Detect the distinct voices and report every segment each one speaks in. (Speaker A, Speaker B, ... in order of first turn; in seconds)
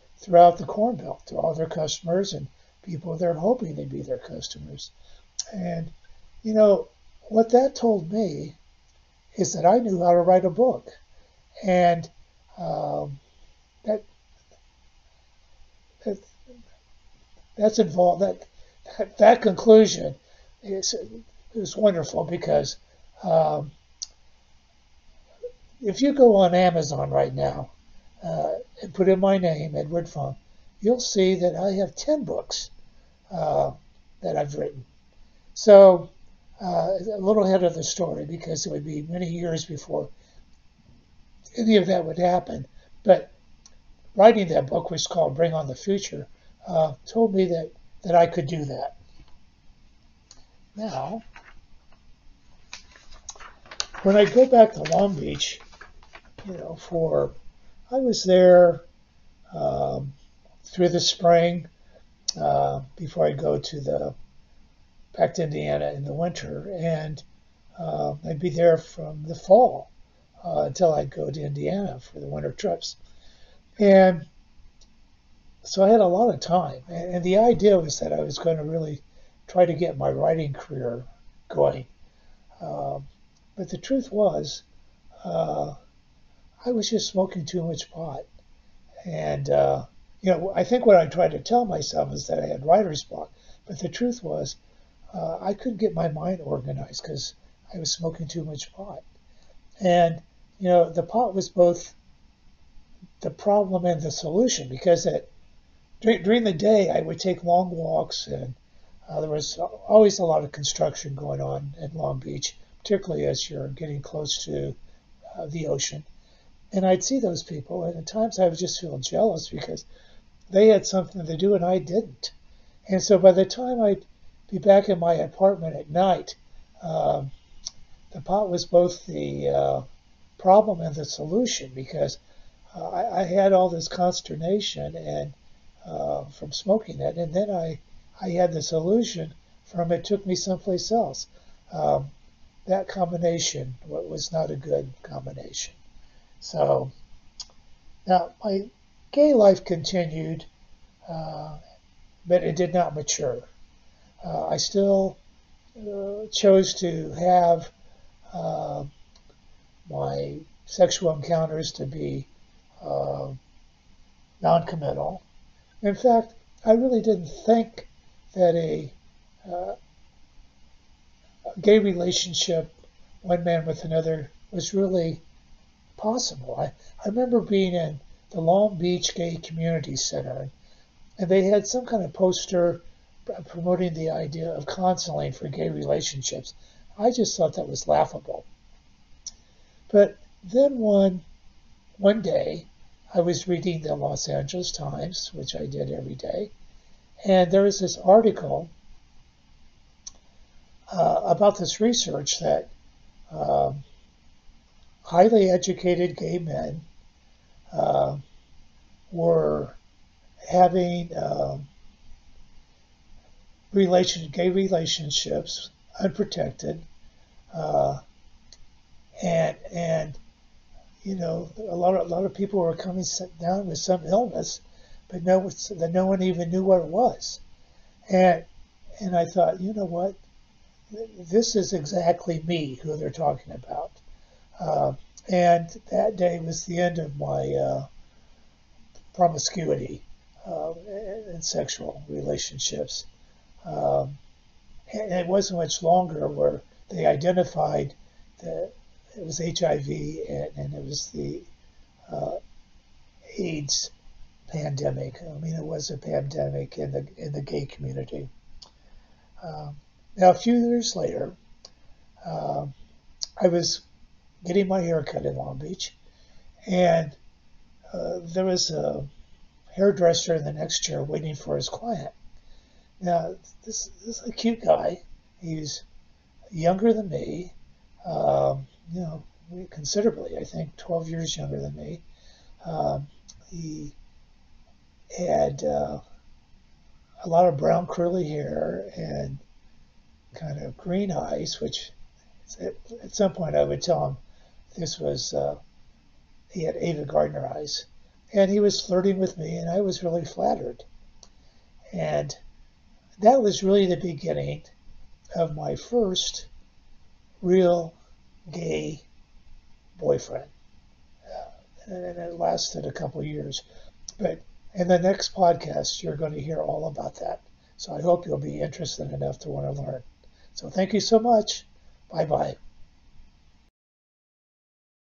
Speaker A: 0.2-4.9, 5.5-8.6, 9.3-11.0, 11.6-13.2, 17.6-23.7, 25.8-27.7, 28.2-32.7, 33.3-34.9, 35.5-40.1, 41.6-43.3, 44.2-49.0, 50.8-51.2, 54.0-55.6, 56.4-57.4, 57.9-58.9, 59.5-61.7, 62.4-64.2, 65.1-67.2, 67.8-69.9, 70.4-73.0, 73.8-74.2, 75.6-81.9, 82.6-84.6, 85.2-85.8, 86.7-88.3, 89.1-94.6, 95.1-99.0, 99.8-102.0, 103.2-105.3, 106.0-108.6, 109.1-114.8, 115.4-116.1, 116.7-119.8, 120.5-122.3, 122.9-127.3, 128.1-129.8, 130.4-132.2, 132.7-135.3, 135.9-142.1, 142.7-145.8, 146.4-146.9, 148.1-150.5, 151.1-151.6, 152.3-153.5, 154.2-155.2, 155.8-157.7, 158.3-158.9, 159.9-162.3, 162.8-163.4, 164.4-165.2, 165.8-169.8, 171.6-175.2, 176.0-180.5, 181.2-188.5, 189.9-191.2, 192.0-196.5, 197.2-198.7, 200.9-202.7, 203.3-203.8, 205.1-206.9, 207.7-208.2, 209.1-209.8, 210.5-211.7, 213.7-216.9, 217.5-218.0, 219.2-220.2, 221.0-227.4, 228.1-228.5, 229.0-230.2, 230.9-234.0, 234.6-237.9, 239.1-243.1, 243.7-244.2, 244.9-251.5, 252.1-252.4, 253.3-253.9, 254.5-258.3, 259.4-261.4, 262.2-262.7, 263.4-263.9, 264.4-266.0, 266.7-267.2, 267.9-269.1, 269.8-272.1, 273.0-275.8, 276.5-277.5, 278.1-282.0, 282.6-283.9, 285.1-286.0, 287.2-289.4, 290.3-291.9, 292.5-294.2, 294.7-295.6, 296.5-300.9, 301.9-302.4, 303.2-304.7, 305.4-306.5, 307.4-308.0, 308.5-309.1, 310.0-310.5, 311.4-313.6, 314.2-322.6